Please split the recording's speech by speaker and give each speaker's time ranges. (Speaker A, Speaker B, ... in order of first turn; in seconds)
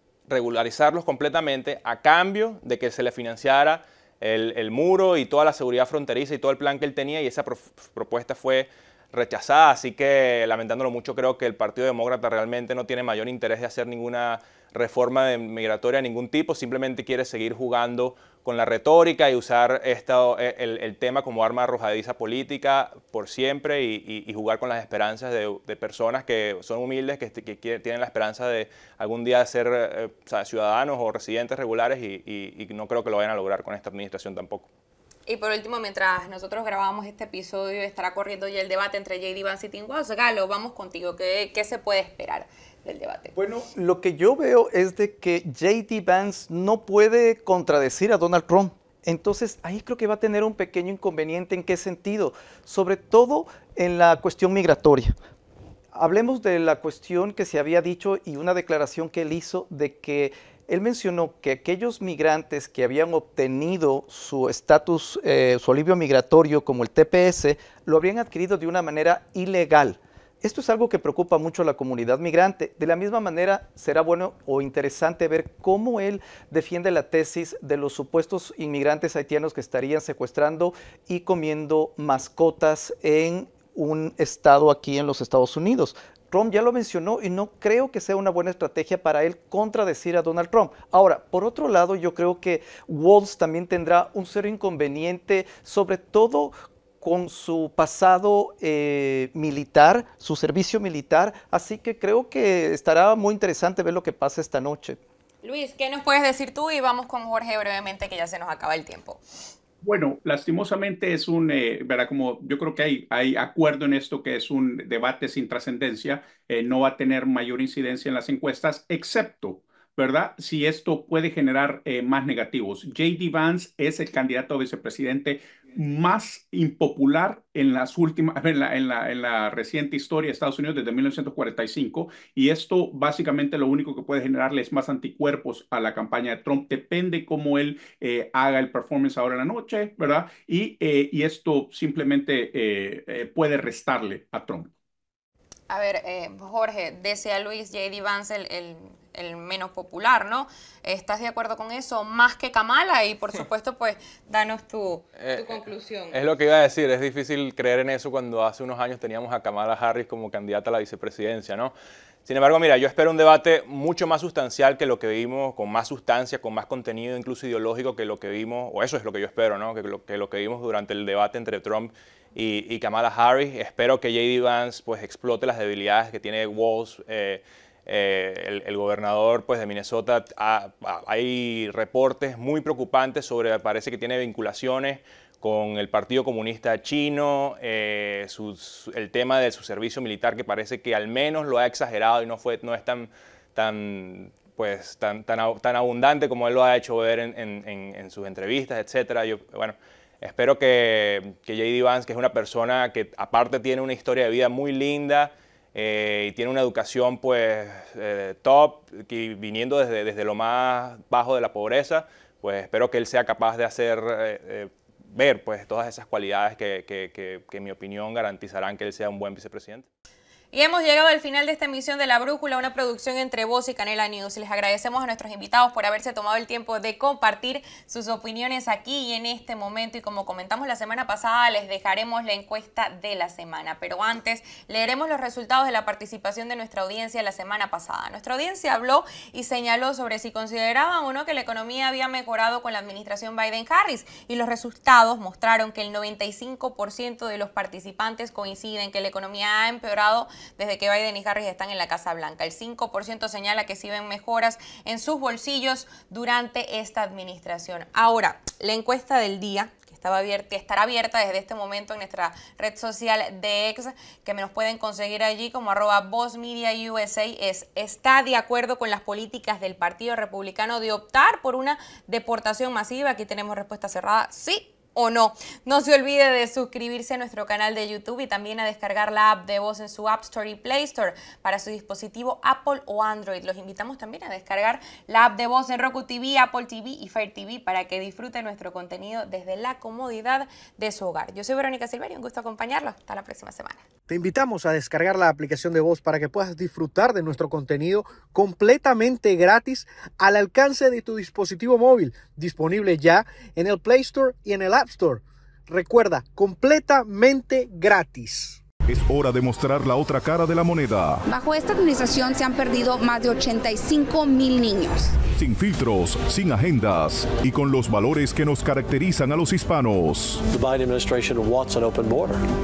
Speaker A: 0.3-34.7, 155.2-161.7, 162.2-219.8
Speaker B: 35.3-43.3, 105.4-109.2, 145.7-156.2, 220.5-293.8
Speaker C: 43.3-55.1, 55.9-105.0
Speaker D: 109.8-144.7
Speaker E: 294.1-308.6
Speaker F: 308.9-311.2, 315.3-320.4
Speaker G: 311.2-315.2
Speaker H: 320.5-322.4